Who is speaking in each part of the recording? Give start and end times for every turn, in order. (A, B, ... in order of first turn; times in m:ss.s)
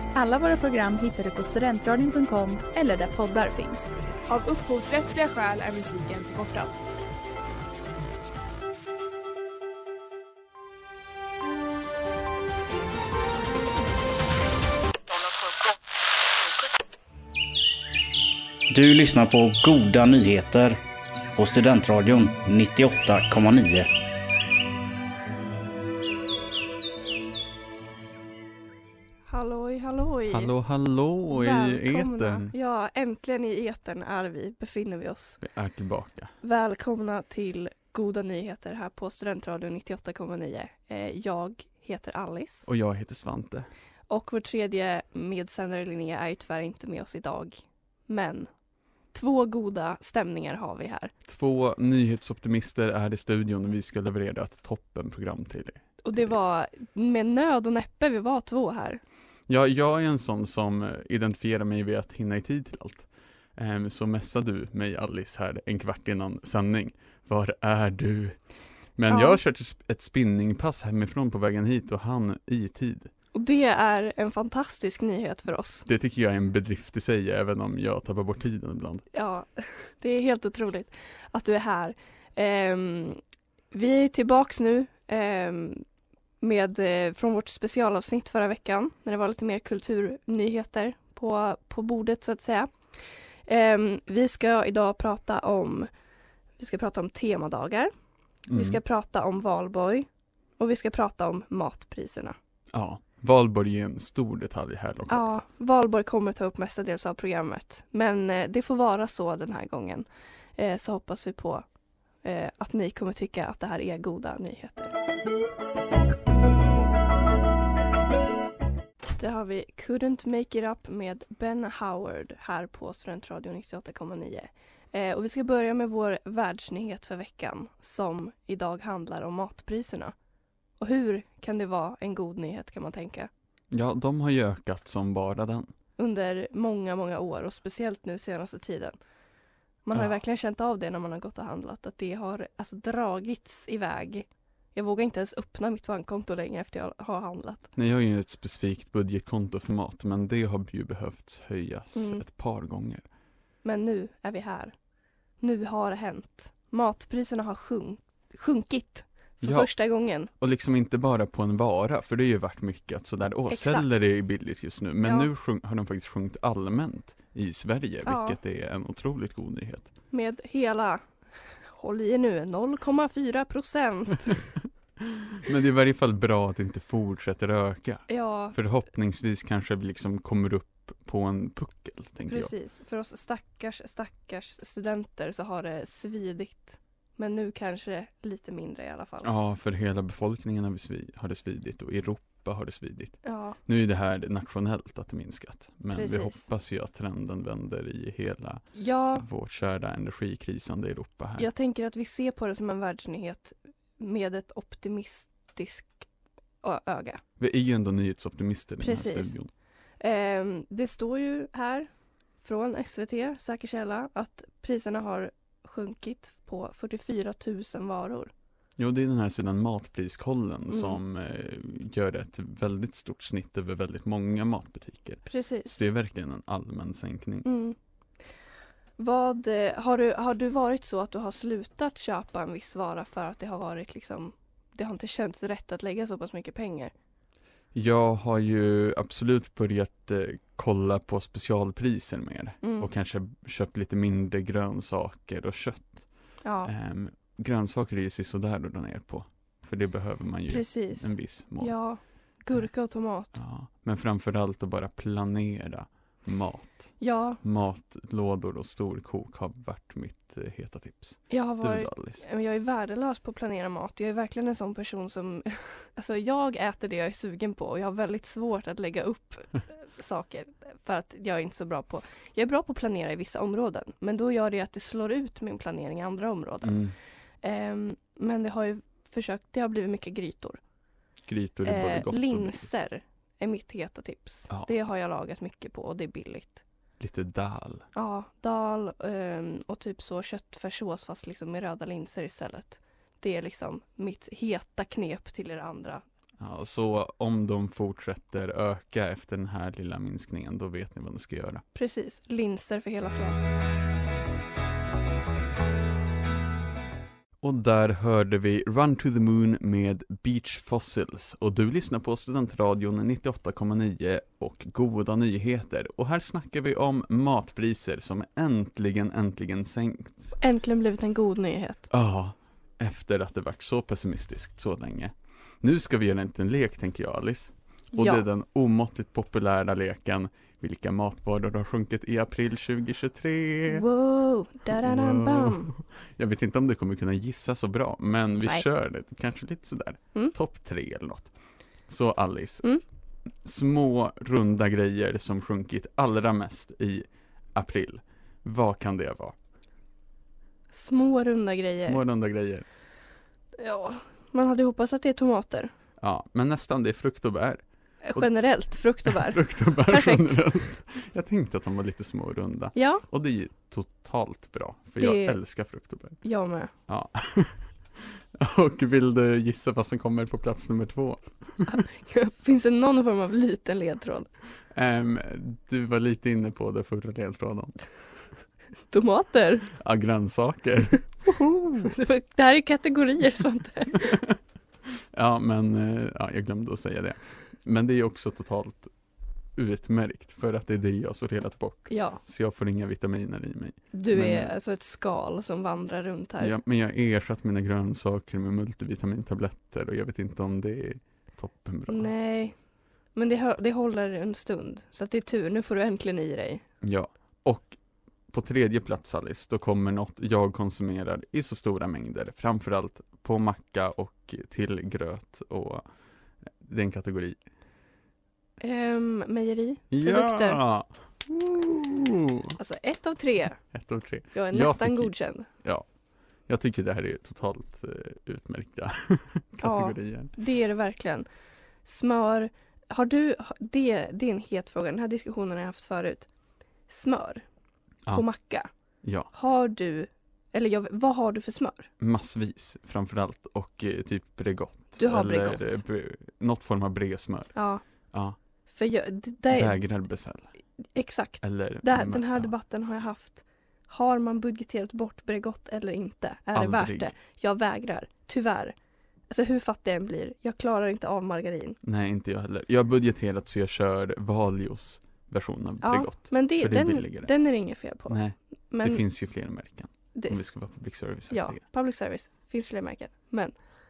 0:00.1-0:03.9 A
0:04.3-0:06.7 B
0:18.7-0:20.8 C
0:21.4-0:23.9 C
0:29.3-0:30.5 D
0:30.3-0:32.5 E
0:31.3-0:35.4 D
0:35.4-0:36.3 E
0:36.4-0:42.7 D
0:42.6-0:43.7 E
0:44.1-0:48.5 D
0:49.1-0:51.1 D
0:51.2-0:55.8 E
0:56.0-0:59.0 D
0:59.5-1:08.4 E
1:09.0-1:13.1 E
1:09.1-1:09.4 D
1:13.3-1:15.8 D
1:15.8-1:19.0 E
1:19.1-1:23.2 D
1:23.7-1:25.8 D
1:26.4-1:32.7 D
1:33.4-1:35.9 D
1:36.6-1:37.9 D
1:38.5-1:38.8 E
1:38.5-1:42.3 D
1:42.7-1:45.3 E
1:45.1-1:51.6 D
1:52.2-1:54.9 D
1:59.2-2:10.1 D
2:10.8-2:13.3 D
2:13.7-2:15.7 E
2:16.0-2:19.0 D
2:19.8-2:27.7 D
2:27.7-2:33.0 E
2:31.9-2:32.2 D
2:33.6-2:34.7 D
2:35.4-2:40.3 D
2:39.4-2:39.7 E
2:40.4-2:49.9 E
2:43.5-2:43.9 D
2:45.0-2:45.3 D
2:48.0-2:48.4 D
2:50.1-2:51.0 D
2:51.7-2:54.5 D
2:55.0-3:02.5 E
2:58.1-2:58.6 D
3:02.3-3:09.3 D
3:09.2-3:21.5 E
3:13.2-3:13.6 D
3:15.9-3:16.5 D
3:18.7-3:19.2 D
3:21.4-3:26.1 D
3:26.6-3:27.2 D
3:27.4-3:29.5 E
3:28.8-3:29.4 D
3:30.0-3:38.3 D
3:38.8-3:47.4 E
3:40.7-3:41.0 D
3:45.2-3:45.8 D
3:47.4-3:47.8 D
3:49.0-3:56.9 D
3:57.7-4:06.1 E
4:02.6-4:02.9 D
4:06.4-4:06.7 D
4:06.6-4:11.8 E
4:10.5-4:13.4 D
4:13.3-4:22.2 E
4:17.0-4:17.4 D
4:21.3-4:36.8 D
4:36.6-4:36.9 E
4:37.4-4:40.6 D
4:41.2-4:42.7 E
4:41.6-4:46.6 D
4:47.0-4:47.8 E
4:47.9-4:56.0 D
4:56.4-5:01.6 E
5:01.7-5:03.4 D
5:07.4-5:20.3 E
5:20.4-5:21.9 D
5:21.9-5:33.8 E
5:27.9-5:28.2 D
5:33.7-5:35.7 D
5:34.8-5:41.3 E
5:41.9-5:42.6 E
5:43.4-5:49.4 E
5:50.7-5:52.0 D
5:51.8-5:52.6 E
5:53.6-5:55.7 D
5:56.0-5:57.6 E
5:58.0-6:00.4 D
5:59.0-6:06.2 E
6:02.7-6:03.0 D
6:05.0-6:05.4 D
6:06.2-6:06.7 D
6:06.9-6:11.6 E
6:11.6-6:14.3 D
6:14.7-6:17.8 E
6:18.9-6:19.7 D
6:19.7-6:21.9 E
6:21.8-6:24.2 D
6:25.0-6:28.9 E
6:29.6-6:34.5 E
6:31.9-6:32.2 D
6:33.9-6:36.6 D
6:36.4-6:42.1 E
6:41.9-6:42.6 D
6:43.1-6:46.6 D
6:46.8-6:47.8 E
6:48.3-6:55.8 E
6:56.6-6:57.4 E
6:58.6-7:00.6 D
6:59.9-7:02.6 E
7:02.6-7:03.6 D
7:03.7-7:05.8 E
7:04.3-7:05.5 D
7:06.5-7:10.3 E
7:09.6-7:11.3 D
7:11.8-7:16.3 D
7:16.9-7:17.4 D
7:18.1-7:18.7 D
7:19.0-7:19.3 E
7:19.3-7:21.9 D
7:22.0-7:27.5 E
7:25.0-7:25.8 D
7:27.5-7:27.8 D
7:28.1-7:28.4 E
7:28.7-7:29.8 D
7:29.5-7:30.5 E
7:30.9-7:38.7 D
7:31.4-7:32.5 E
7:36.5-7:37.1 E
7:39.3-7:41.8 D
7:41.8-7:47.3 E
7:45.8-7:48.2 D
7:48.1-7:51.6 E
7:48.7-7:49.0 D
7:50.1-7:50.4 D
7:51.3-7:53.5 D